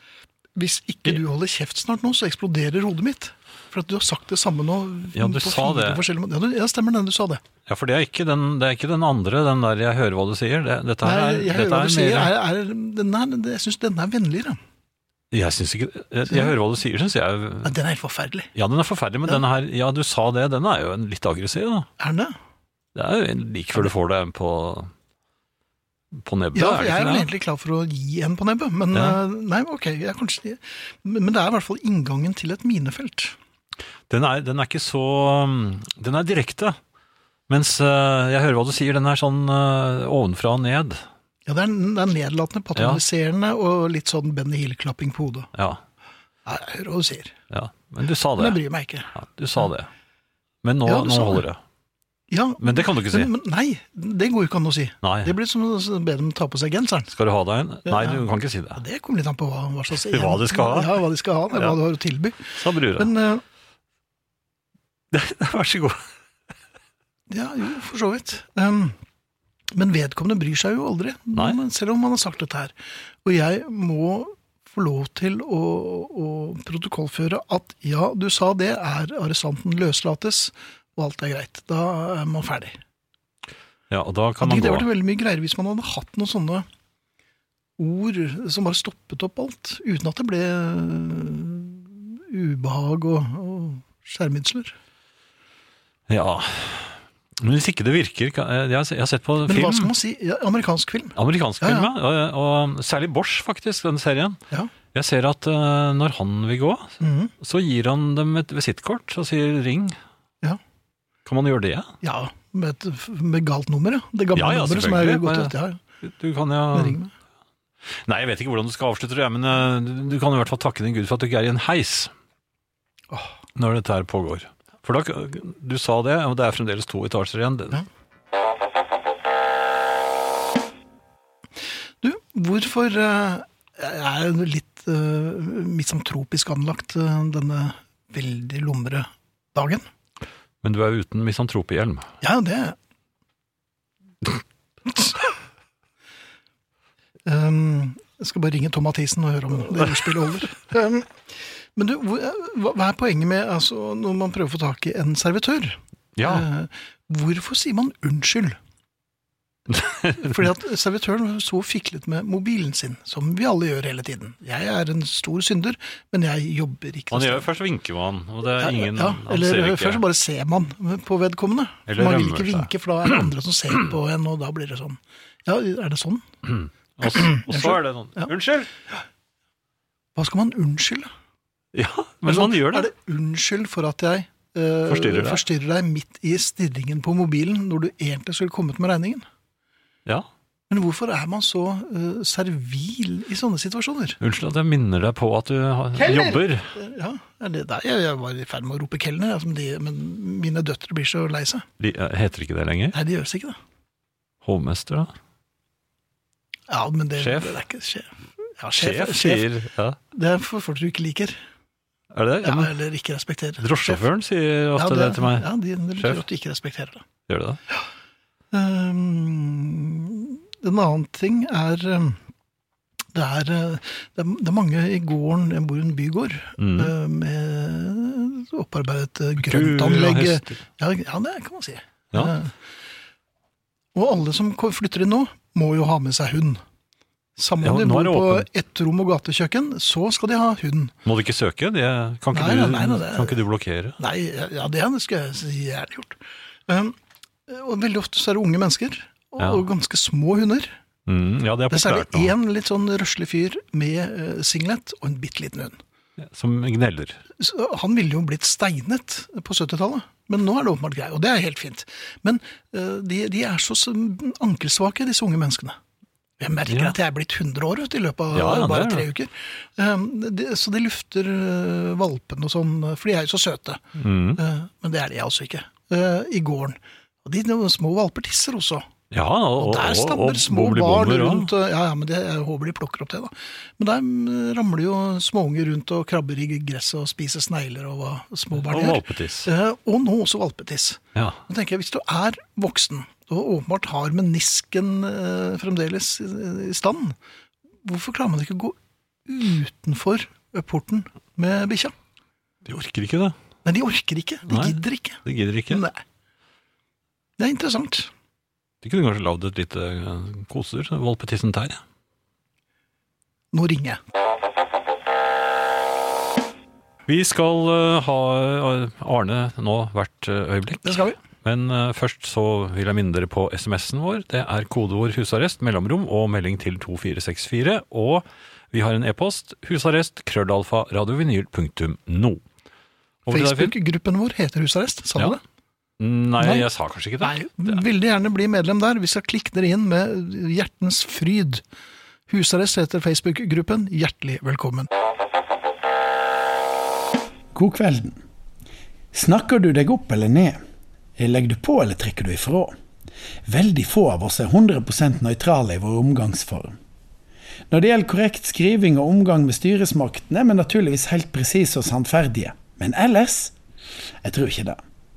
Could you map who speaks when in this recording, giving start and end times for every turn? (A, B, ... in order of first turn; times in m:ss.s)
0:00.5-0:07.4 A
0:05.1-0:06.0 B
0:07.7-0:12.3 B
0:11.0-0:14.6 A
0:15.3-0:17.7 B
0:16.3-0:16.5 A
0:17.6-0:18.5 A
0:18.5-0:21.9 B
0:22.0-0:22.3 A
0:22.9-0:24.9 B
0:26.1-0:27.3 B
0:26.5-0:33.4 A
0:28.9-0:29.2 B
0:34.1-0:36.8 B
0:37.5-0:41.0 B
0:41.4-0:45.5 A
0:42.8-0:43.0 B
0:45.6-0:45.8 B
0:46.4-0:47.4 A
0:47.5-0:48.6 B
0:48.4-0:49.1 A
0:49.1-0:49.9 B
0:50.6-0:51.6 B
0:50.8-0:51.4 A
0:52.3-0:57.1 A
0:52.6-0:53.3 B
0:55.0-0:55.3 B
0:57.1-0:58.8 B
0:57.8-0:58.2 A
0:58.7-1:03.4 A
1:00.1-1:01.0 B
1:02.5-1:03.1 B
1:05.1-1:06.0 B
1:07.3-1:09.0 A
1:09.7-1:22.8 A
1:23.9-1:24.9 B
1:24.4-1:26.6 A
1:27.8-1:34.8 A
1:36.1-1:39.9 B
1:39.4-1:41.9 A
1:41.2-1:44.4 B
1:44.9-1:50.0 B
1:47.0-1:47.3 A
1:51.2-1:51.9 B
1:52.0-1:55.8 A
1:54.3-1:57.0 B
1:56.7-1:57.1 A
1:58.0-2:02.1 B
2:03.6-2:07.8 B
2:12.0-2:19.8 A
2:20.6-2:22.1 B
2:22.2-2:22.8 A
2:24.9-2:25.1 A
2:27.2-2:38.6 A
2:36.2-2:36.4 B
2:39.7-2:40.3 B
2:40.2-2:47.5 A
2:47.1-2:50.0 B
2:48.6-2:56.2 A
2:51.9-2:52.7 B
2:56.6-2:58.7 B
2:57.0-2:58.3 A
3:00.1-3:01.1 A
3:01.7-3:02.9 B
3:02.2-3:09.2 A
3:04.9-3:05.4 B
3:10.7-3:14.2 A
3:14.2-3:16.7 B
3:16.0-3:21.6 A
3:21.8-3:23.0 B
3:22.9-3:23.6 A
3:24.4-3:25.1 B
3:26.7-3:29.4 A
3:27.2-3:27.6 B
3:28.8-3:30.0 B
3:30.1-3:31.4 A
3:32.1-3:32.7 B
3:32.4-3:34.0 A
3:33.6-3:36.2 B
3:34.8-3:37.0 A
3:37.3-3:37.6 B
3:38.5-3:42.2 A
3:43.1-3:52.5 A
3:46.6-3:46.9 B
3:49.4-3:50.6 B
3:53.9-3:56.6 A
3:57.4-4:00.9 A
3:57.6-3:58.4 B
4:01.0-4:04.0 B
4:02.3-4:03.4 A
4:04.0-4:07.0 A
4:07.5-4:10.8 A
4:09.4-4:09.7 B
4:11.1-4:12.3 B
4:11.7-4:15.8 A
4:16.2-4:17.2 B
4:17.4-4:25.8 A
4:26.4-4:33.8 A
4:26.7-4:26.9 B
4:28.3-4:29.0 B
4:34.0-4:34.4 B
4:34.4-4:38.9 A
4:39.1-4:41.5 B
4:39.6-4:57.2 A
4:48.6-4:49.5 B
4:57.8-5:01.9 A
5:02.6-5:03.3 B
5:03.6-5:06.0 A
5:04.5-5:05.8 B
5:07.4-5:08.1 A
5:08.8-5:11.8 B
5:13.5-5:14.0 A
5:17.1-5:32.4 B
5:20.8-5:21.2 A
5:33.2-5:33.7 B
5:33.3-5:35.4 A
5:36.0-5:37.8 B
5:36.4-5:36.6 A
5:37.2-5:41.6 A
5:42.3-5:44.9 A
5:47.5-5:48.2 C
5:49.1-5:50.6 C
5:51.2-5:52.7 C
5:53.4-5:56.8 C
5:57.7-6:03.5 C
6:04.2-6:04.8 C